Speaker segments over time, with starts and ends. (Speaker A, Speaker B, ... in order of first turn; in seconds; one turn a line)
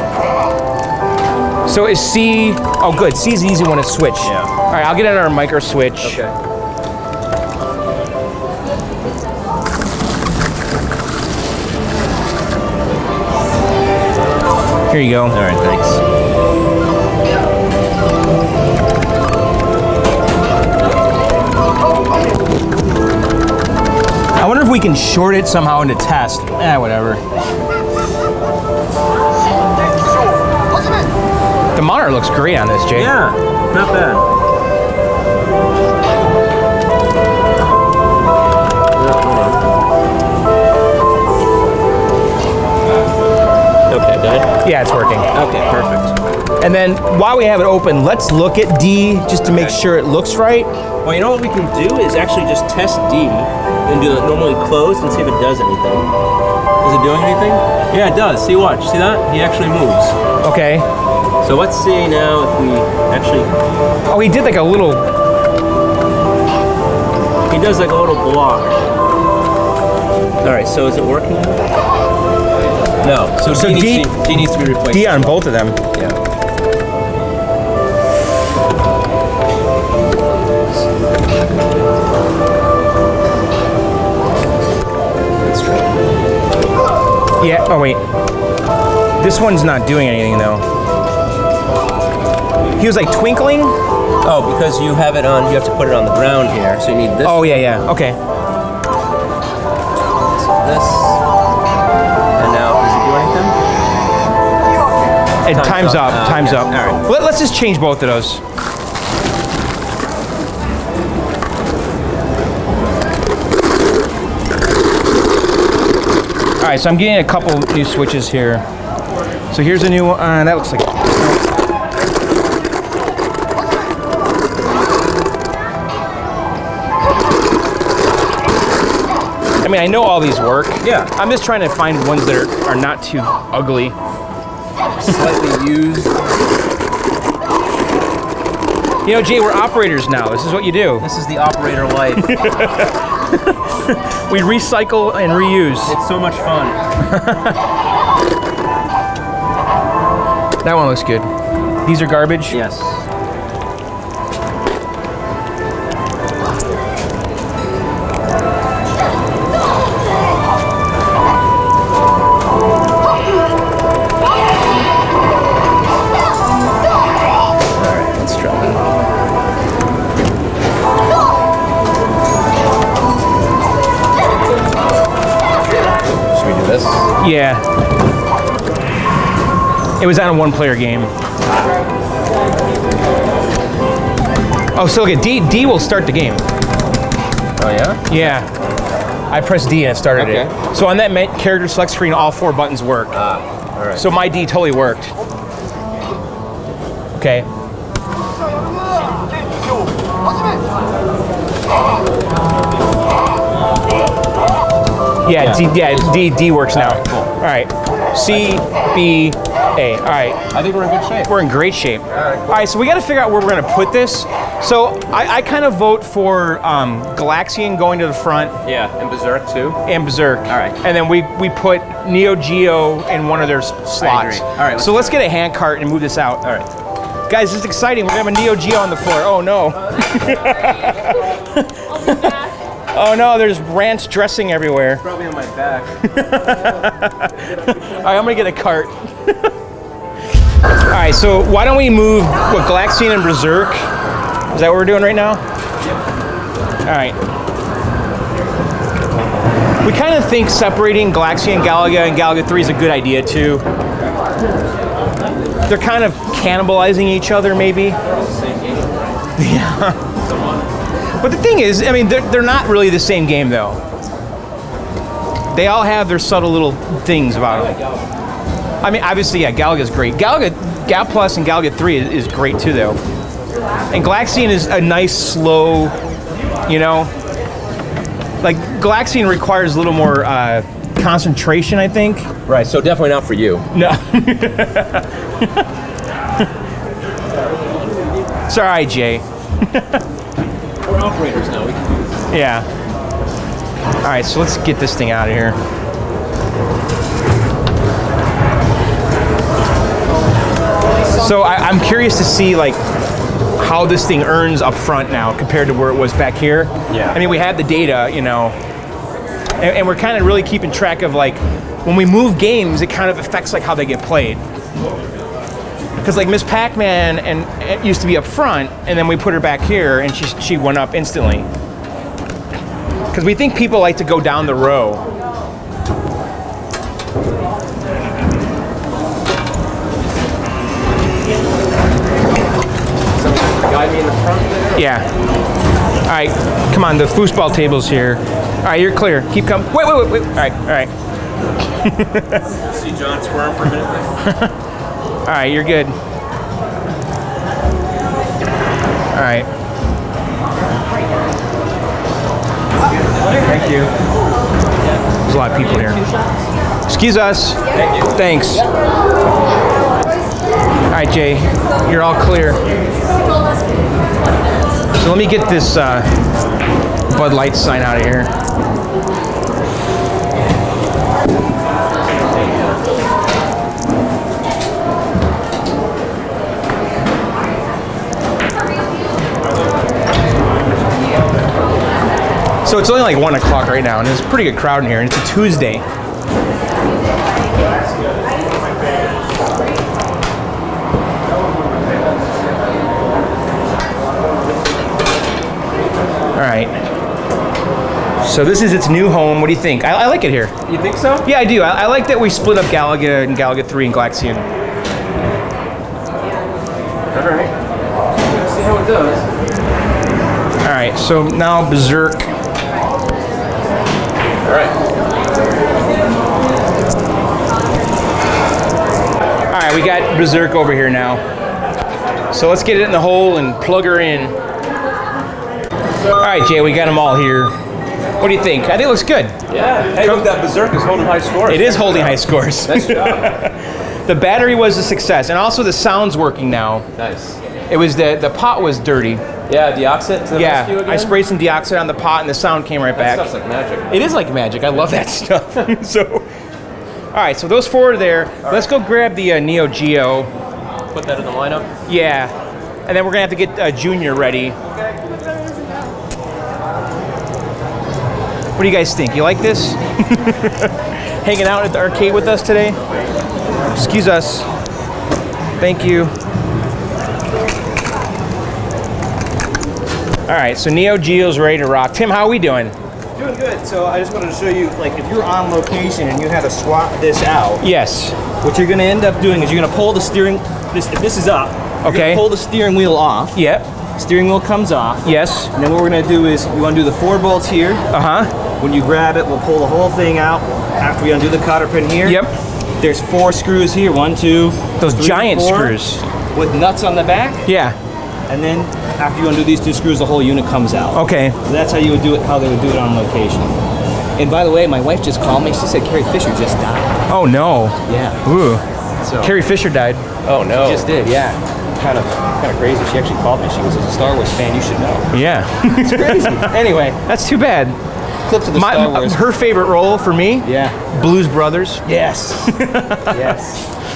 Speaker A: 1.6-6.2
Speaker B: 4.2-4.5
Speaker B: 6.0-6.3
Speaker A: 14.9-15.4
Speaker B: 15.3-16.0
Speaker A: 24.4-27.2
Speaker A: 31.7-33.1
Speaker B: 32.9-34.2
Speaker B: 38.9-39.6
Speaker B: 43.9-44.5
Speaker A: 44.6-45.3
Speaker B: 45.3-46.1
Speaker A: 46.6-50.7
Speaker B: 49.4-49.8
Speaker B: 51.0-56.1
Speaker B: 56.8-60.1
Speaker A: 60.4-60.9
Speaker B: 61.4-63.5
Speaker A: 64.1-65.1
Speaker B: 67.5-68.8
Speaker B: 70.4-71.6
Speaker B: 73.0-75.4
Speaker A: 73.4-74.3
Speaker A: 74.8-75.8
Speaker B: 85.4-85.9
Speaker A: 87.4-88.0
Speaker A: 89.2-90.7
Speaker A: 92.8-93.8
Speaker B: 94.2-97.6
Speaker A: 97.2-98.2
Speaker B: 100.3-101.2
Speaker B: 102.4-103.5
Speaker A: 105.4-108.4
Speaker B: 105.5-107.0
Speaker A: 116.6-118.7
Speaker A: 119.5-121.2
Speaker A: 129.6-133.9
Speaker B: 130.8-131.1
Speaker B: 135.0-136.2
Speaker A: 139.0-141.1
Speaker B: 141.0-142.4
Speaker A: 142.2-145.9
Speaker B: 145.8-146.8
Speaker A: 147.0-147.6
Speaker A: 150.6-151.3
Speaker A: 151.8-152.6
Speaker B: 152.5-153.0
Speaker B: 167.8-168.8
Speaker B: 176.3-177.1
Speaker A: 177.2-177.6
Speaker A: 180.0-181.1
Speaker A: 184.7-186.4
Speaker B: 187.6-188.4
Speaker A: 188.1-188.5
Speaker A: 189.3-193.2
Speaker B: 190.2-190.5
Speaker B: 193.1-194.1
Speaker A: 193.9-195.1
Speaker A: 197.1-197.5
Speaker A: 205.2-210.4
Speaker B: 205.3-207.3
Speaker B: 210.5-211.3
Speaker A: 211.2-218.6
Speaker B: 212.1-212.7
Speaker B: 218.6-219.8
Speaker A: 219.8-226.5
Speaker B: 220.5-220.8
Speaker B: 224.0-225.2
Speaker B: 226.4-226.7
Speaker A: 227.3-235.0
Speaker B: 235.0-235.9
Speaker A: 236.0-239.5
Speaker A: 240.9-243.8
Speaker A: 244.5-245.4
Speaker A: 246.8-247.2
Speaker A: 249.8-253.6
Speaker A: 255.7-258.0
Speaker B: 258.0-259.1
Speaker A: 259.4-260.1
Speaker B: 260.2-260.6
Speaker A: 261.2-263.8
Speaker A: 265.5-267.7
Speaker B: 267.4-268.1
Speaker A: 268.8-273.0
Speaker A: 273.9-275.9
Speaker A: 276.7-277.1
Speaker A: 278.4-282.3
Speaker B: 282.5-283.7
Speaker A: 283.7-285.7
Speaker A: 288.5-290.0
Speaker B: 290.8-292.3
Speaker A: 292.3-292.7
Speaker A: 294.0-295.6
Speaker A: 301.1-302.8
Speaker A: 303.6-308.6
Speaker B: 306.9-307.2
Speaker A: 309.6-314.4
Speaker A: 316.0-321.5
Speaker A: 323.1-325.0
Speaker B: 333.1-334.9
Speaker A: 334.8-335.1
Speaker A: 336.1-340.9
Speaker A: 341.8-342.5
Speaker B: 342.7-344.1
Speaker A: 344.2-344.5
Speaker A: 345.2-345.9
Speaker A: 349.1-349.5
Speaker C: 353.5-353.7
Speaker A: 353.5-353.9
Speaker A: 355.2-356.0
Speaker A: 356.9-358.7
Speaker B: 357.7-358.1
Speaker A: 360.9-362.7
Speaker A: 364.9-366.1
Speaker A: 367.1-368.3
Speaker A: 382.6-385.8
Speaker A: 396.3-396.7
Speaker A: 398.2-400.5
Speaker B: 400.6-401.3
Speaker A: 401.2-404.5
Speaker B: 407.1-407.5
Speaker B: 408.2-409.3
Speaker A: 410.6-412.3
Speaker B: 414.4-414.8
Speaker A: 419.5-421.2
Speaker A: 422.3-424.3
Speaker A: 426.2-427.5
Speaker A: 428.2-429.4
Speaker B: 429.5-433.4
Speaker A: 430.0-430.3
Speaker A: 431.4-436.9
Speaker B: 436.9-437.4
Speaker A: 437.7-439.2
Speaker B: 439.5-441.1
Speaker A: 440.3-443.3
Speaker B: 442.9-443.9
Speaker A: 443.9-446.3
Speaker A: 447.1-450.3
Speaker B: 450.9-451.7
Speaker A: 451.9-452.3
Speaker A: 452.9-454.6
Speaker A: 458.6-462.8
Speaker A: 463.7-464.5
Speaker A: 465.6-466.1
Speaker A: 470.3-472.7
Speaker C: 473.1-477.6
Speaker A: 477.6-478.2
Speaker C: 478.4-483.3
Speaker A: 481.8-482.2
Speaker A: 483.3-483.7
Speaker C: 484.0-487.8
Speaker A: 485.0-485.5
Speaker A: 487.9-488.3
Speaker C: 488.6-492.2
Speaker A: 492.0-492.3
Speaker C: 492.8-495.8
Speaker A: 494.8-496.0
Speaker C: 496.3-497.4
Speaker A: 497.4-497.8
Speaker C: 498.3-503.6
Speaker A: 500.9-501.4
Speaker C: 504.2-507.0
Speaker A: 507.1-508.6
Speaker C: 507.9-508.2
Speaker A: 509.2-510.0
Speaker B: 510.2-510.9
Speaker C: 510.6-515.1
Speaker A: 515.1-517.8
Speaker C: 515.7-517.0
Speaker C: 518.3-519.3
Speaker A: 518.5-521.9
Speaker C: 520.4-520.8
Speaker C: 521.9-522.5
Speaker A: 522.4-523.4
Speaker C: 523.0-523.6